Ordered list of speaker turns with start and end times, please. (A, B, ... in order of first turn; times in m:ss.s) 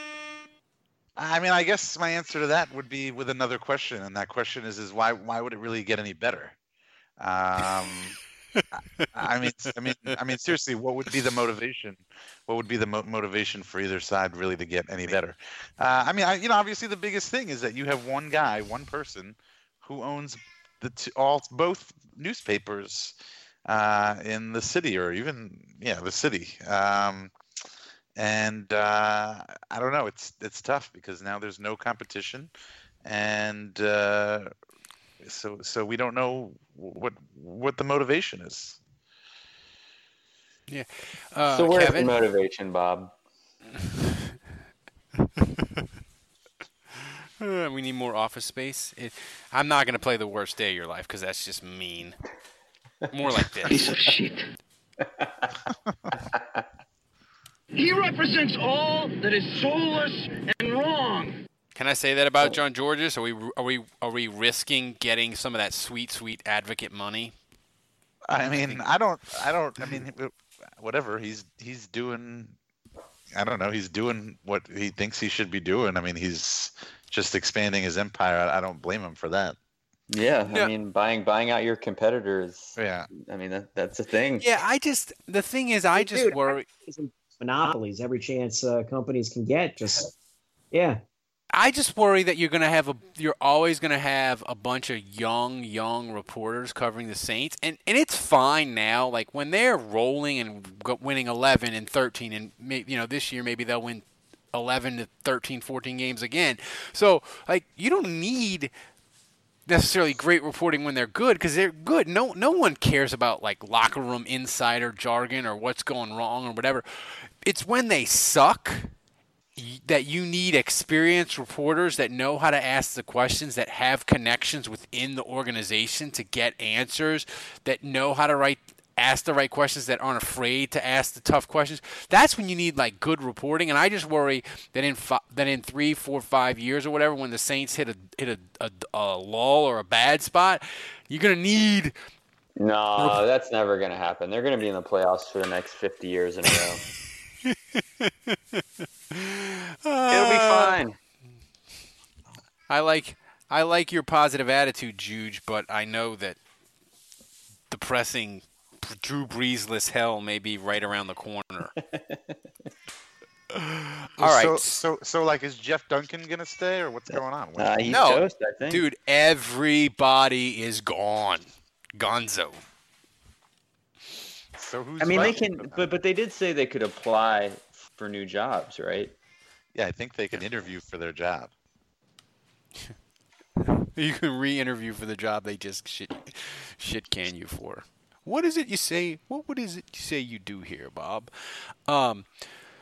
0:01.2-0:06.5 A
0:07.2-0:08.2 A
0:08.7-0:23.1 A
0:23.7-0:27.3 A
0:28.2-0:32.5 A
0:33.0-0:34.5 A
0:35.2-0:38.8 A
0:40.7-0:42.2 B
0:41.4-0:43.1 C
0:47.4-0:52.2 B
0:53.1-0:53.9 B
0:53.7-0:54.4 D
0:55.2-0:55.4 C
0:56.3-0:56.6 C
0:57.7-1:01.4 D
1:01.8-1:07.3 B
1:08.3-1:12.6 A
1:13.3-1:19.6 A
1:20.1-1:24.4 C
1:22.8-1:23.1 A
1:24.4-1:26.6 B
1:26.0-1:30.1 E
1:30.7-1:31.0 E
1:31.5-1:48.7 B
1:49.7-1:56.8 B
1:57.4-1:58.9 B
1:59.6-2:21.9 B
2:22.6-2:26.8 C
2:27.4-2:28.4 B
2:29.1-2:30.8 B
2:30.1-2:31.0 C
2:32.7-2:36.4 B
2:37.7-2:41.7 B
2:41.9-2:42.4 C
2:43.5-2:44.6 B
2:44.2-2:47.8 A
2:47.1-2:48.8 C
2:47.9-2:51.4 B
2:52.0-2:52.6 B
2:54.6-2:55.9 A
2:55.0-2:59.1 C
2:59.7-3:01.5 A
3:03.6-3:11.3 B
3:11.9-3:12.2 B